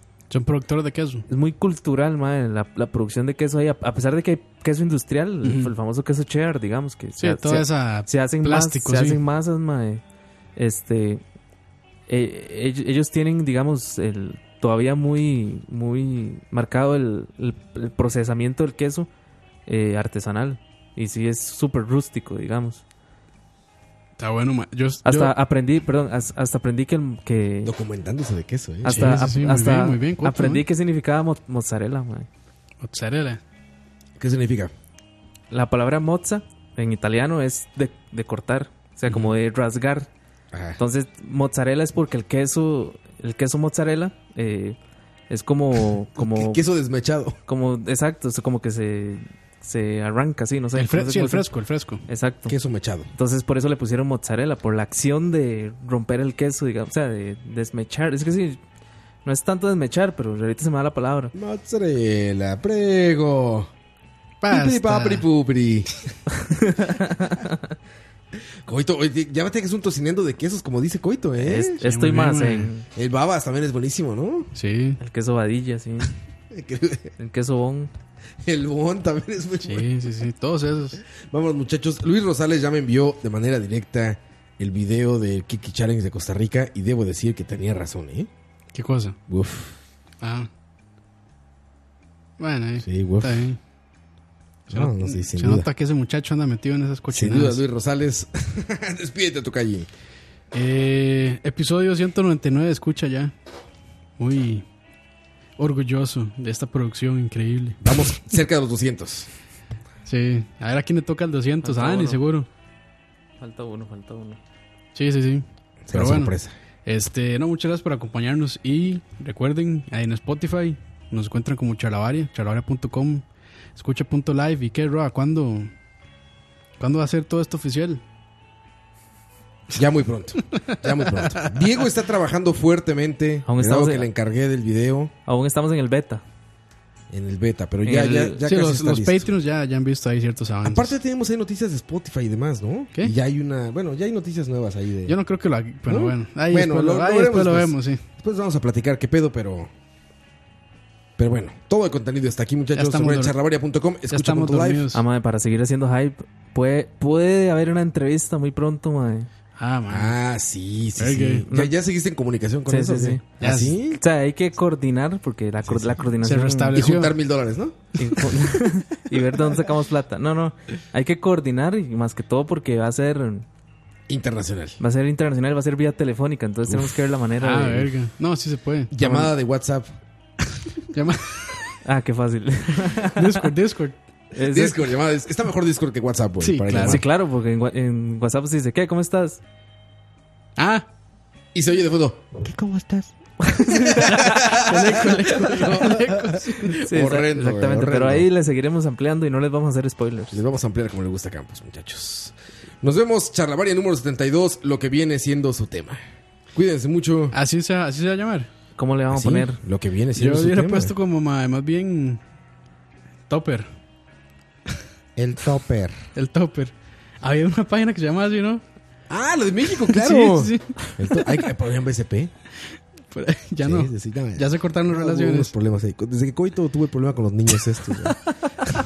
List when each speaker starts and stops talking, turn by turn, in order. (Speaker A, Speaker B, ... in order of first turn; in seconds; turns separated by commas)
Speaker A: 0.3-1.2, Speaker B: 1.3-10.0, Speaker A: 5.4-5.7, Speaker A: 7.2-9.2, Speaker B: 10.6-11.2, Speaker B: 12.1-19.1, Speaker B: 19.7-22.8, Speaker A: 24.2-25.3, Speaker B: 25.0-27.7, Speaker C: 27.6-29.3, Speaker A: 28.8-30.6, Speaker B: 28.8-32.3, Speaker A: 32.8-33.4, Speaker C: 34.2-34.7, Speaker B: 35.5-40.1, Speaker C: 40.5-40.8, Speaker B: 40.8-44.8, Speaker B: 45.3-46.6, Speaker C: 46.1-47.4, Speaker B: 47.5-51.5, Speaker A: 50.8-52.0, Speaker B: 52.1-52.5, Speaker C: 52.5-53.1, Speaker B: 53.1-58.6, Speaker B: 59.2-61.3, Speaker C: 61.3-63.7, Speaker A: 64.4-65.2, Speaker C: 64.5-65.9, Speaker B: 66.3-67.7, Speaker C: 68.6-71.8, Speaker B: 71.4-72.9, Speaker A: 71.8-72.7, Speaker C: 72.9-74.5, Speaker A: 74.5-75.0, Speaker B: 75.0-76.1, Speaker C: 76.5-77.1, Speaker B: 77.2-77.9, Speaker C: 78.4-79.9, Speaker A: 79.6-81.0, Speaker C: 81.0-88.3, Speaker A: 88.7-89.2, Speaker C: 89.3-89.8, Speaker A: 90.2-90.5, Speaker A: 92.4-93.6, Speaker C: 92.8-93.5, Speaker A: 94.7-97.6, Speaker C: 94.7-95.7, Speaker C: 97.1-99.9, Speaker A: 100.5-103.3, Speaker A: 104.2-104.7, Speaker A: 105.6-107.9, Speaker C: 107.8-109.3, Speaker A: 110.0-112.5, Speaker B: 111.6-112.2, Speaker B: 113.4-114.4, Speaker A: 114.9-116.3, Speaker C: 115.9-116.5, Speaker A: 116.8-123.2, Speaker A: 123.8-125.7, Speaker A: 126.8-128.0, Speaker C: 129.7-135.1, Speaker B: 133.4-134.1, Speaker B: 135.3-136.2, Speaker C: 137.1-139.3, Speaker B: 137.8-138.4, Speaker A: 138.4-140.9, Speaker C: 140.6-145.2, Speaker A: 145.1-148.0, Speaker C: 145.8-149.7, Speaker C: 151.2-154.9, Speaker A: 152.7-153.3, Speaker A: 154.1-155.0, Speaker B: 154.9-159.3, Speaker A: 159.6-160.1, Speaker C: 159.9-164.0, Speaker A: 161.0-161.5, Speaker B: 161.5-161.7, Speaker B: 162.7-163.3, Speaker A: 163.4-163.8, Speaker B: 163.9-166.8, Speaker C: 165.6-166.1, Speaker A: 166.2-167.2, Speaker C: 166.7-167.9, Speaker B: 167.9-173.4, Speaker C: 174.1-174.8, Speaker B: 174.8-177.9, Speaker A: 177.4-179.3, Speaker C: 178.9-179.9, Speaker A: 180.9-181.6, Speaker B: 181.8-183.5, Speaker A: 183.0-183.9, Speaker B: 184.3-184.9, Speaker C: 184.4-187.0, Speaker A: 186.4-187.0, Speaker B: 186.8-189.4, Speaker A: 190.6-190.9, Speaker C: 191.5-192.4, Speaker B: 193.4-195.7, Speaker C: 193.8-198.3, Speaker A: 193.9-196.8, Speaker B: 196.7-200.4, Speaker C: 200.3-206.0, Speaker C: 206.5-207.4, Speaker A: 207.3-208.5, Speaker B: 208.8-209.6, Speaker C: 209.1-210.9, Speaker A: 210.2-212.2, Speaker A: 213.3-213.7, Speaker C: 215.2-216.0, Speaker A: 216.1-218.6, Speaker C: 219.1-222.3, Speaker A: 219.8-221.3, Speaker A: 223.1-225.5, Speaker C: 223.6-228.2